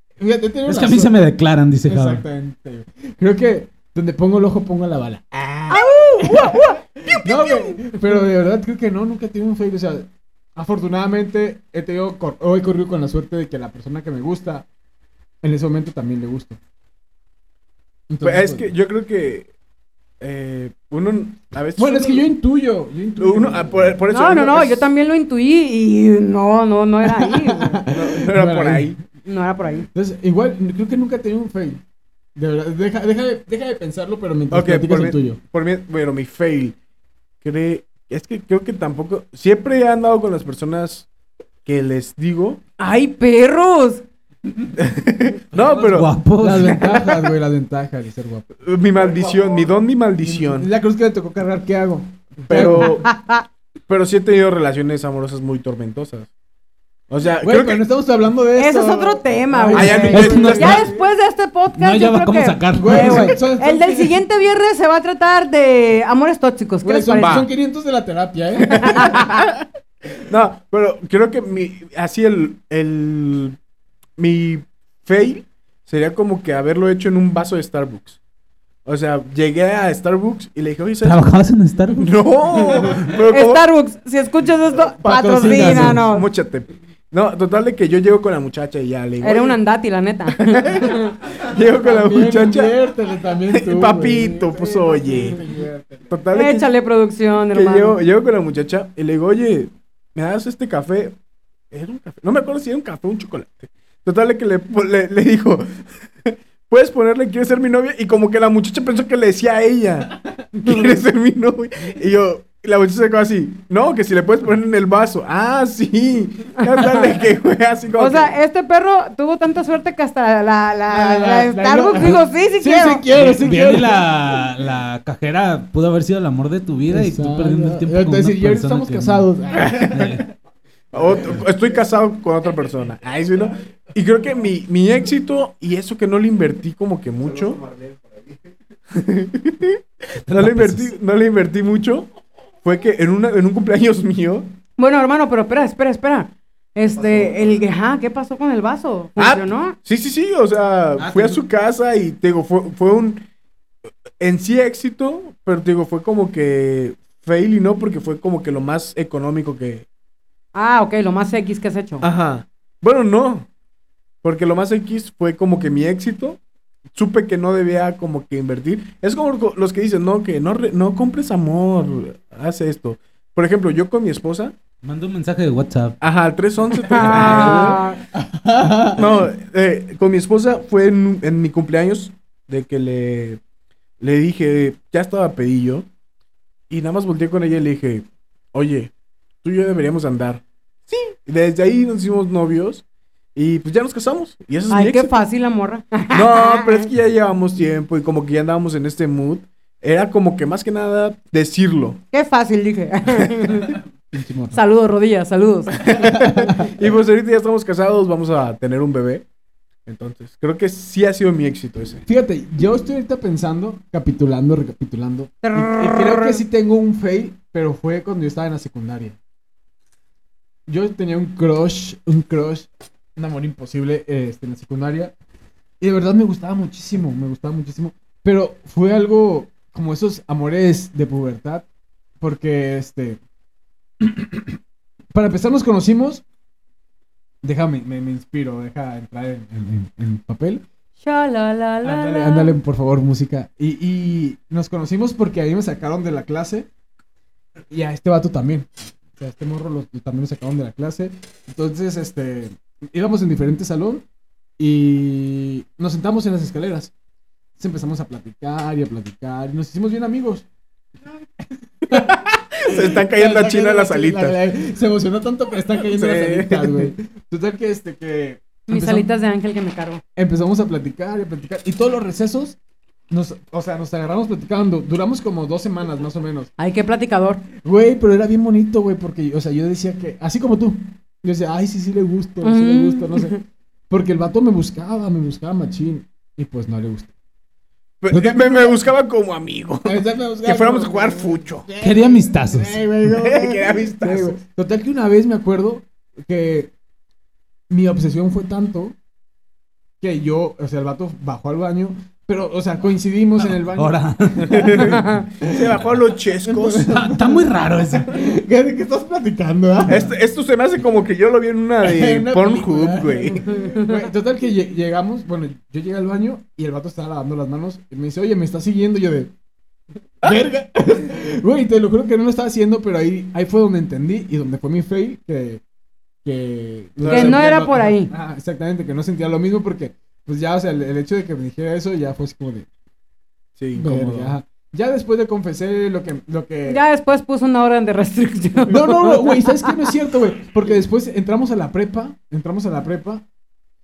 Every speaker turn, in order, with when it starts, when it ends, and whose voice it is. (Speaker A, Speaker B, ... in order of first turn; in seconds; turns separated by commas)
Speaker A: 0.2-1.2, Speaker B: 0.7-2.2, Speaker A: 1.9-6.5, Speaker C: 5.7-6.8, Speaker A: 7.1-14.7, Speaker A: 15.4-16.6, Speaker A: 18.1-18.7, Speaker D: 18.2-19.5, Speaker D: 20.2-22.3, Speaker A: 21.8-24.0, Speaker D: 23.2-24.9, Speaker C: 24.1-27.8, Speaker A: 27.1-29.0, Speaker D: 27.9-29.0, Speaker C: 29.2-29.9, Speaker A: 29.9-31.8, Speaker A: 32.4-35.4, Speaker D: 34.5-36.8, Speaker D: 37.4-41.1, Speaker D: 41.7-42.6, Speaker C: 42.8-44.0, Speaker D: 44.8-46.1, Speaker B: 45.6-47.0, Speaker A: 46.4-48.5, Speaker D: 48.6-50.7, Speaker A: 50.2-53.0, Speaker D: 52.5-53.1, Speaker C: 52.5-53.5, Speaker D: 53.9-56.3, Speaker D: 57.1-57.8, Speaker A: 57.4-60.9, Speaker C: 58.6-67.5, Speaker D: 59.7-60.9, Speaker B: 60.1-60.9, Speaker B: 61.8-63.4, Speaker A: 62.7-64.2, Speaker A: 66.8-69.3, Speaker D: 67.2-67.5, Speaker C: 68.8-69.5, Speaker D: 69.0-69.3, Speaker D: 70.2-73.6, Speaker D: 74.2-78.2, Speaker D: 78.9-81.3, Speaker B: 81.0-82.1, Speaker D: 82.0-83.7, Speaker C: 82.9-86.3, Speaker A: 85.0-86.1, Speaker D: 85.3-89.6, Speaker C: 89.2-91.2, Speaker D: 90.4-92.8, Speaker A: 91.8-96.1, Speaker D: 93.5-95.4, Speaker D: 96.1-96.7, Speaker C: 96.3-98.0, Speaker D: 97.5-101.2, Speaker D: 101.7-118.3, Speaker C: 110.6-110.9, Speaker C: 116.6-117.1, Speaker C: 118.0-123.1, Speaker A: 120.9-124.1, Speaker B: 123.1-129.3, Speaker A: 126.9-130.1, Speaker B: 129.9-130.3, Speaker D: 130.9-137.7, Speaker D: 138.9-142.1, Speaker B: 140.3-140.9, Speaker D: 142.6-144.5, Speaker C: 144.8-149.8, Speaker D: 149.2-153.2, Speaker B: 151.0-151.4, Speaker D: 154.2-159.9, Speaker C: 160.6-162.1, Speaker D: 162.0-163.5, Speaker D: 164.2-166.4, Speaker D: 166.9-174.6, Speaker B: 174.8-176.0, Speaker D: 176.0-177.8, Speaker C: 176.9-178.0, Speaker A: 177.1-179.3, Speaker D: 179.0-183.4, Speaker D: 184.0-185.9, Speaker D: 186.7-188.9, Speaker D: 189.4-192.8, Speaker D: 193.3-195.2, Speaker C: 194.7-196.9, Speaker D: 196.1-202.0, Speaker C: 202.1-203.8, Speaker A: 204.1-204.6, Speaker C: 204.5-205.8, Speaker D: 205.8-209.2, Speaker A: 206.1-206.7, Speaker D: 209.9-212.1, Speaker A: 212.1-219.2, Speaker C: 215.4-216.4, Speaker A: 220.7-225.1, Speaker A: 225.8-231.7, Speaker A: 232.2-233.2, Speaker A: 234.0-234.6, Speaker A: 235.1-236.2, Speaker A: 237.4-240.6, Speaker C: 241.0-242.6, Speaker A: 241.8-246.7, Speaker A: 247.7-254.0, Speaker A: 254.6-256.9, Speaker A: 257.6-260.4, Speaker A: 261.9-269.1, Speaker D: 261.9-264.4, Speaker D: 265.8-266.9, Speaker C: 268.7-270.0, Speaker A: 270.2-272.6, Speaker A: 273.1-276.5, Speaker C: 276.6-277.4, Speaker A: 277.6-283.4, Speaker C: 282.4-283.4, Speaker A: 283.9-287.1, Speaker D: 288.0-291.7, Speaker A: 288.1-288.8, Speaker A: 289.9-296.7, Speaker B: 291.8-292.8, Speaker D: 293.1-294.4, Speaker A: 297.7-298.9, Speaker A: 300.0-305.8, Speaker B: 303.6-305.0, Speaker D: 304.4-306.9, Speaker A: 306.4-310.1, Speaker B: 306.9-308.1, Speaker D: 309.9-313.4, Speaker A: 311.8-319.3, Speaker C: 313.5-314.0, Speaker A: 320.2-325.6, Speaker A: 326.2-332.7, Speaker D: 327.0-327.4, Speaker C: 327.1-328.1, Speaker D: 333.6-334.4, Speaker A: 333.8-336.8, Speaker C: 336.7-339.9, Speaker A: 338.7-343.2